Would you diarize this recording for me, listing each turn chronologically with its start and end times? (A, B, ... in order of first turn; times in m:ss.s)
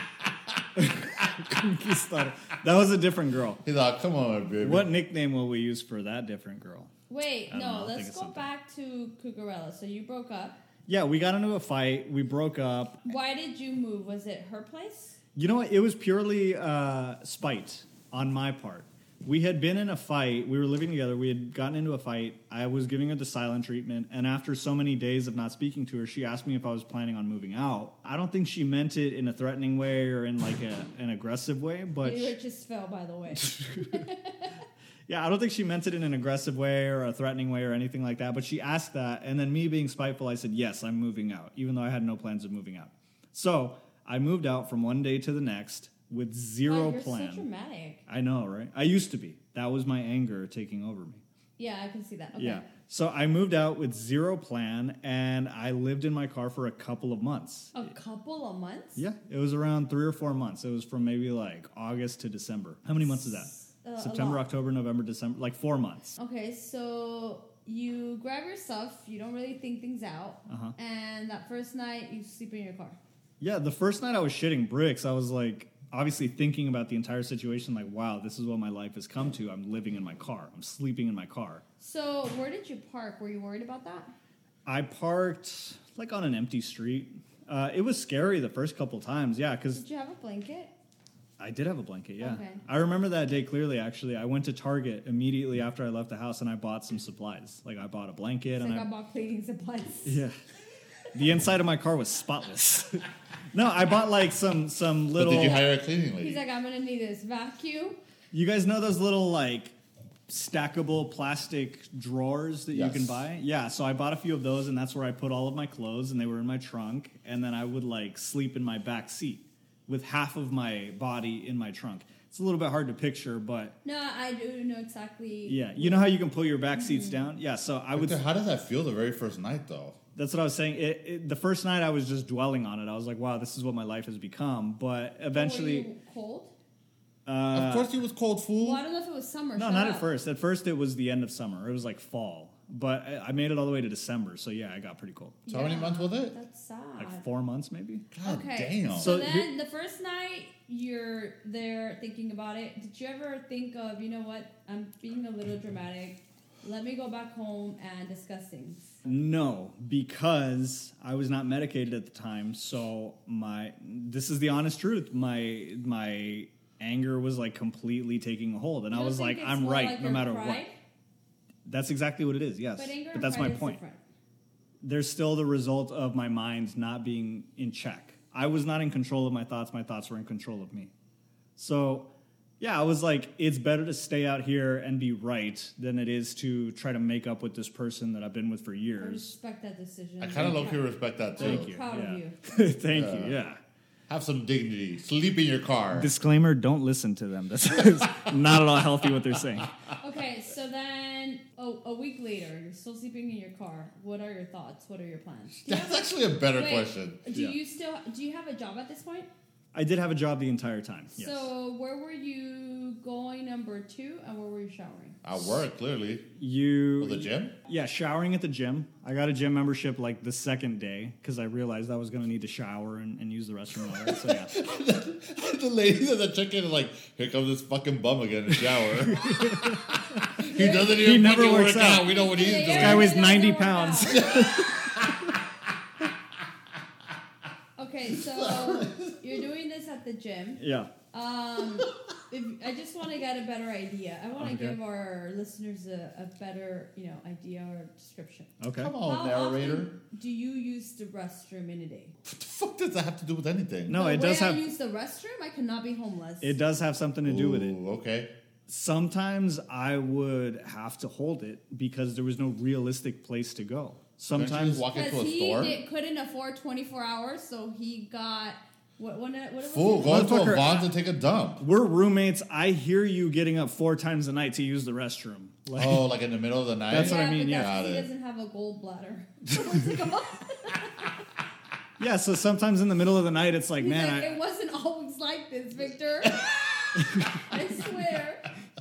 0:00.8-0:03.6 A
0:03.6-0:04.9 B
0:04.6-0:06.9 A
0:07.1-0:10.6 C
0:07.5-0:08.5 A
0:10.9-0:13.0 A
0:13.1-0:15.2 C
0:15.4-0:32.3 A
0:32.0-0:34.5 C
0:35.1-0:47.5 A
0:46.7-0:48.0 C
0:48.1-0:51.2 A
0:51.6-0:52.7 C
0:52.4-0:57.9 A
0:57.8-0:59.0 C
0:59.0-1:06.2 A
1:03.1-1:04.5 C
1:06.2-1:13.0 C
1:10.5-1:10.7 A
1:13.4-1:21.6 A
1:21.8-1:24.1 C
1:24.7-1:29.8 A
1:29.7-1:30.7 C
1:31.4-1:38.9 A
1:32.2-1:32.6 C
1:38.6-1:40.2 C
1:40.1-1:40.4 A
1:41.1-1:45.6 A
1:45.2-1:46.4 B
1:46.2-1:48.0 C
1:48.3-1:49.8 A
1:50.3-2:03.8 A
1:52.7-1:53.2 B
2:03.8-2:06.2 C
2:05.5-2:08.2 A
2:06.7-2:07.2 C
2:08.0-2:10.0 B
2:10.2-2:15.9 A
2:15.3-2:16.5 C
2:17.3-2:17.9 A
2:17.5-2:18.8 B
2:18.6-2:20.1 C
2:19.6-2:25.4 A
2:25.5-2:27.2 C
2:25.5-2:26.4 B
2:27.0-2:28.1 A
2:28.1-2:29.2 B
2:28.2-2:38.8 C
2:28.9-2:29.5 A
2:39.1-2:50.6 A
2:48.9-2:50.7 C
2:51.7-2:53.8 A
2:52.8-2:54.0 C
2:54.8-3:00.9 A
3:01.6-3:02.1 A
3:02.6-3:09.4 A
3:09.0-3:12.4 C
3:10.2-3:11.7 B
3:11.4-3:13.6 A
3:12.9-3:13.4 B
3:14.1-3:16.1 B
3:15.9-3:19.7 A
3:20.0-3:29.3 C
3:25.6-3:27.2 B
3:29.7-3:31.5 A
3:31.2-3:35.2 C
3:35.2-3:36.3 B
3:36.4-3:44.6 A
3:37.0-3:37.5 B
3:43.9-3:49.8 B
3:48.8-3:50.2 A
3:50.4-3:53.2 B
3:50.4-3:54.5 C
3:50.9-3:52.2 A
3:52.7-3:55.1 A
3:54.1-3:55.3 B
3:57.8-4:12.1 C
3:58.2-3:59.2 B
4:00.6-4:00.9 A
4:04.4-4:04.8 A
4:08.6-4:08.9 A
4:08.8-4:10.0 B
4:12.3-4:14.0 B
4:13.9-4:14.6 A
4:13.9-4:16.6 C
4:16.4-4:17.8 A
4:17.3-4:18.3 B
4:18.7-4:24.9 A
4:24.3-4:25.8 B
4:25.0-4:30.7 C
4:29.6-4:31.6 B
4:30.1-4:30.8 A
4:31.6-4:36.1 A
4:35.8-4:38.1 B
4:36.9-4:37.7 A
4:36.9-4:41.2 C
4:42.0-4:44.4 A
4:43.8-4:48.5 C
4:47.0-4:47.4 A